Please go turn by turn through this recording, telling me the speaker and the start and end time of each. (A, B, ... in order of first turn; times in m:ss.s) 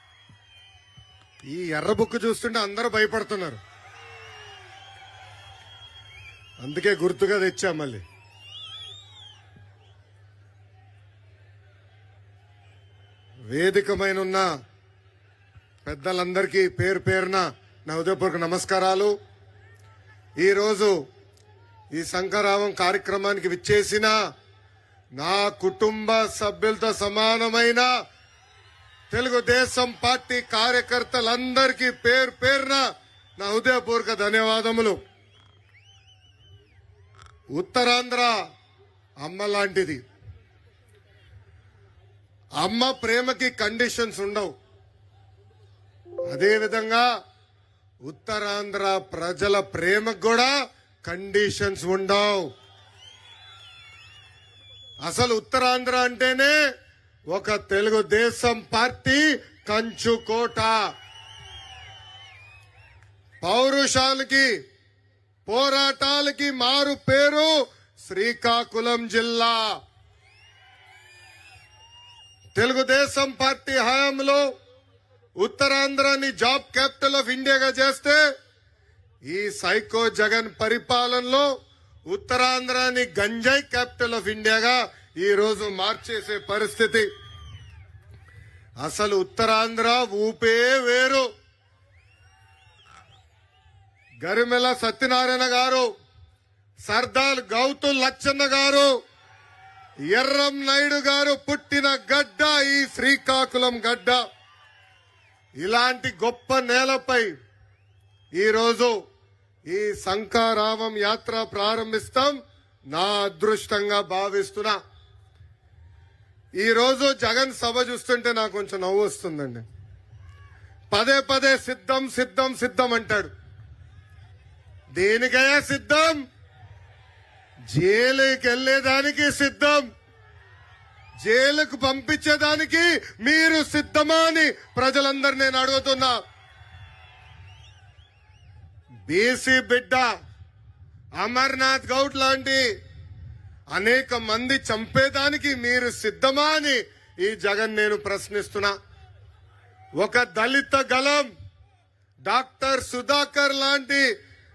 0:01.5-0:03.6 A
0:06.6-0:08.0 A
0:13.5-0:14.5 A
0:15.8-0:19.1 A
0:20.4-0:21.0 A
0:21.9-0:24.1 A
0:25.2-0:27.9 A
0:29.1-0:32.8 A
0:33.4-0:35.0 A
0:37.6-0:38.4 A
0:39.2-0:40.0 A
0:42.6-0:44.5 A
0:46.3-0:47.1 A
0:48.0-0:50.5 A
0:51.0-0:52.5 A
0:55.0-0:56.6 A
0:57.3-1:00.8 A
1:03.4-1:04.5 A
1:05.5-1:09.7 A
1:12.6-1:14.4 A
1:15.4-1:18.2 A
1:19.3-1:21.5 A
1:22.1-1:27.1 A
1:28.8-1:31.3 A
1:34.2-1:35.9 A
1:36.9-1:38.9 A
1:40.1-1:44.2 A
1:45.6-1:47.3 A
1:48.4-1:48.9 A
1:49.7-1:52.4 A
1:52.9-1:54.8 A
1:56.6-1:59.6 A
2:00.9-2:03.3 A
2:05.0-2:06.2 A
2:07.7-2:09.9 A
2:11.2-2:16.2 A
2:19.1-2:20.1 A
2:21.2-2:22.6 A
2:23.7-2:28.7 A
2:30.0-2:31.3 A
2:32.3-2:34.1 A